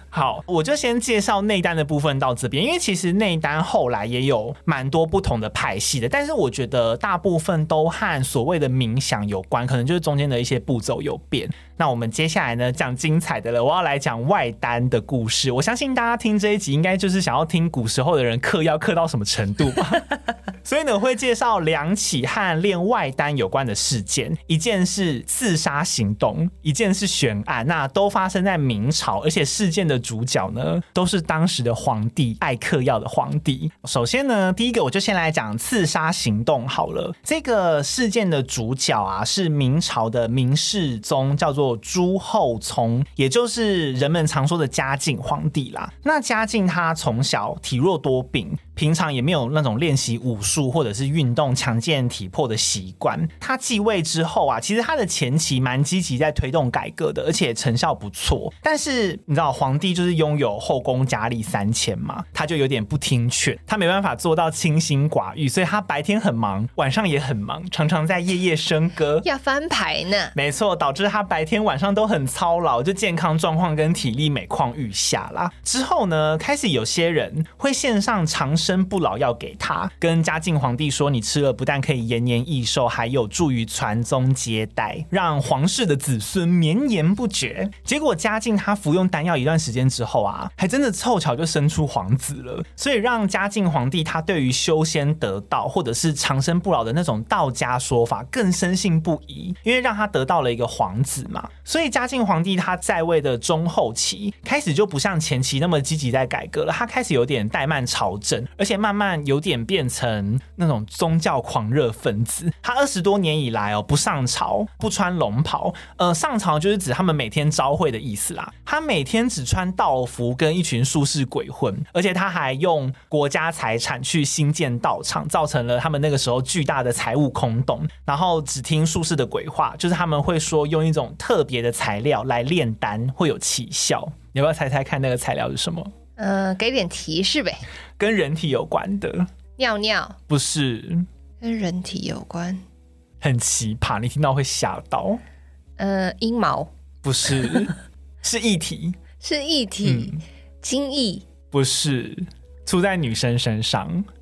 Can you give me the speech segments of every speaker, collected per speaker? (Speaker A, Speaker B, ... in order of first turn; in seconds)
Speaker A: 0.1-69.3, 70.3-135.9, 138.0-139.3, 140.3-141.1, 143.2-145.2, 147.0-149.0, 149.8-150.2, 151.5-154.1
Speaker B: 69.2-70.3, 136.2-137.6, 139.6-140.2, 141.4-142.6, 145.8-146.7, 149.2-151.2